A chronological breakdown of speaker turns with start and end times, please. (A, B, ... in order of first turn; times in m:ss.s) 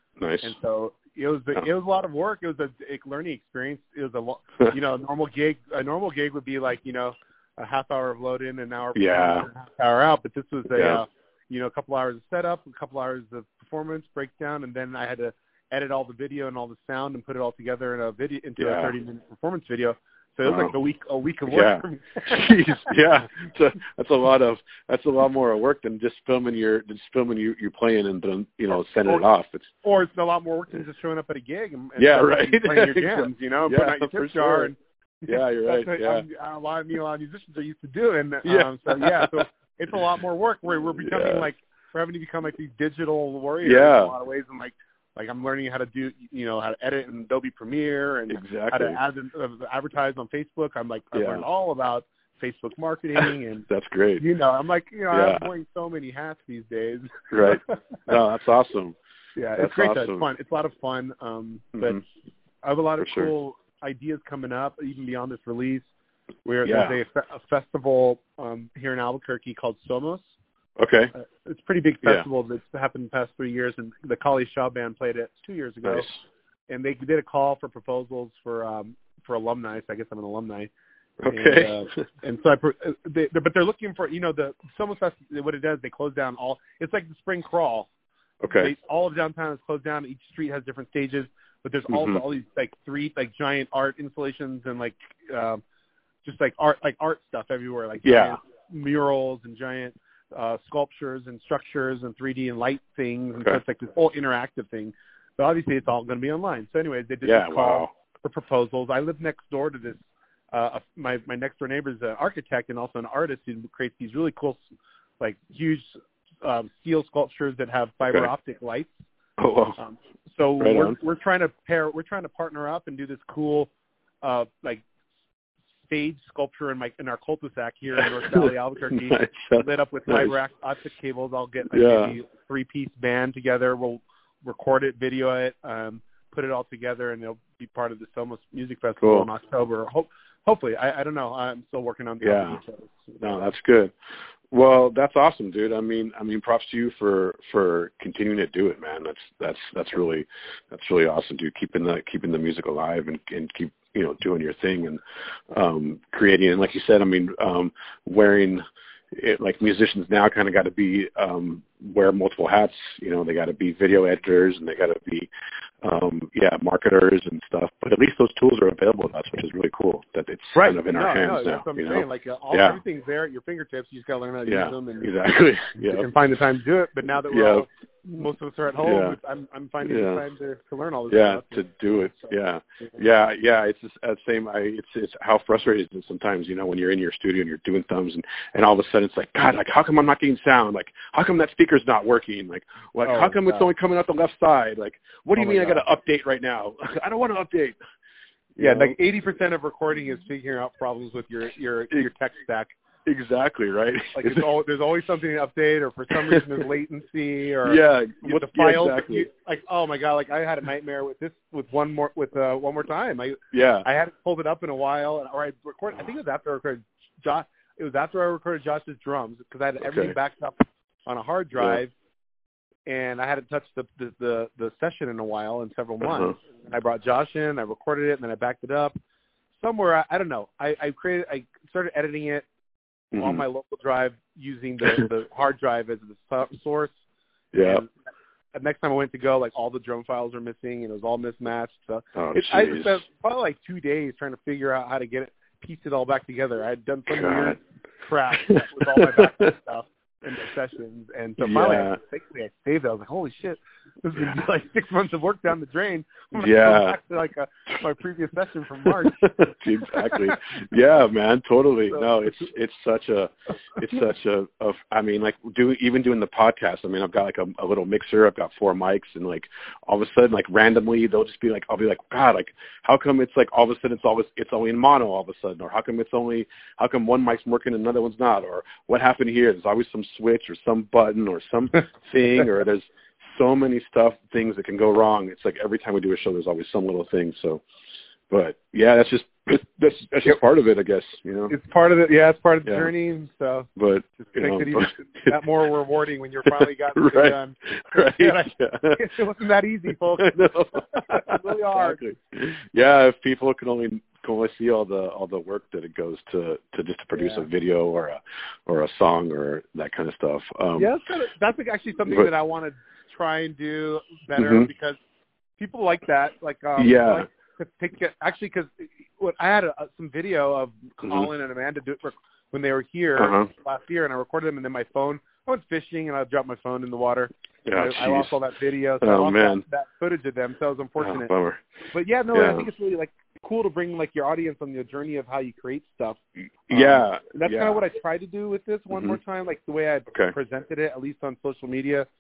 0:00.2-0:00.5 A
0:00.4-0:22.9 B
0:08.9-0:09.5 A
0:10.7-0:11.0 A
0:18.6-0:18.9 A
0:20.4-0:20.7 A
0:21.5-0:29.7 A
0:29.8-0:53.7 B
0:32.0-0:34.7 A
0:35.2-0:36.2 A
0:38.4-0:39.4 A
0:41.0-0:41.5 A
0:43.6-0:44.1 A
0:48.3-0:49.0 A
0:51.1-0:51.4 A
0:53.2-0:54.2 A
0:54.2-0:58.0 B
0:55.1-0:55.5 A
0:57.3-0:59.0 A
0:59.4-1:02.0 B
0:59.6-1:00.2 A
1:02.6-1:05.9 B
1:03.0-1:03.3 A
1:06.4-1:10.3 B
1:06.6-1:07.0 A
1:10.8-1:11.1 A
1:11.1-1:16.1 B
1:15.8-1:16.2 A
1:16.7-1:20.7 B
1:21.2-1:22.0 A
1:21.2-1:27.9 B
1:28.4-1:28.7 A
1:28.5-1:35.6 B
1:31.9-1:32.2 A
1:36.2-1:50.0 B
1:38.0-1:38.4 A
1:47.2-1:47.9 A
1:50.5-1:54.6 B
1:55.2-1:58.9 B
1:59.4-1:59.8 A
1:59.8-2:03.7 B
2:00.6-2:01.0 A
2:04.2-2:04.8 B
2:05.9-2:23.4 B
2:08.0-2:10.3 A
2:11.7-2:12.2 A
2:19.0-2:19.3 A
2:22.2-2:22.6 A
2:23.2-2:23.9 A
2:24.5-2:35.0 A
2:35.5-2:45.3 A
2:45.8-2:52.8 A
2:50.5-2:55.2 B
2:54.4-2:56.1 A
2:55.8-3:02.9 B
2:57.3-2:57.7 A
2:58.8-2:59.2 A
2:59.8-3:00.2 A
3:01.1-3:17.8 A
3:13.0-3:13.7 B
3:15.3-3:15.8 B
3:18.5-3:19.0 A
3:18.6-3:22.7 B
3:23.0-3:24.4 A
3:24.1-3:41.9 B
3:26.1-3:26.4 A
3:27.6-3:29.3 A
3:33.5-3:33.8 A
3:39.8-3:40.1 A
3:42.9-3:48.9 B
3:46.0-3:46.3 A
3:49.6-3:52.4 B
3:53.1-3:53.4 A
3:53.2-3:56.9 B
3:57.5-3:57.8 A
3:57.6-3:57.9 B
3:58.5-4:20.4 B
4:02.2-4:03.0 A
4:07.1-4:07.6 A
4:08.4-4:09.5 A
4:11.4-4:12.0 A
4:16.3-4:17.0 A
4:19.2-4:47.6 A
4:21.9-4:22.4 B
4:48.3-4:51.5 A
4:51.5-5:02.0 B
4:52.6-4:52.9 A
4:53.8-4:55.3 A
4:56.4-4:59.0 A
5:00.2-5:10.9 A
5:07.2-5:07.4 B
5:10.8-5:15.0 B
5:14.4-5:14.7 A
5:15.6-5:31.3 B
5:16.8-5:17.2 A
5:21.0-5:21.3 A
5:23.2-5:23.5 A
5:27.6-5:28.3 A
5:29.0-5:29.6 A
5:31.0-5:31.6 A
5:31.9-5:42.1 B
5:32.3-5:32.6 A
5:36.7-5:37.8 A
5:38.9-5:39.2 A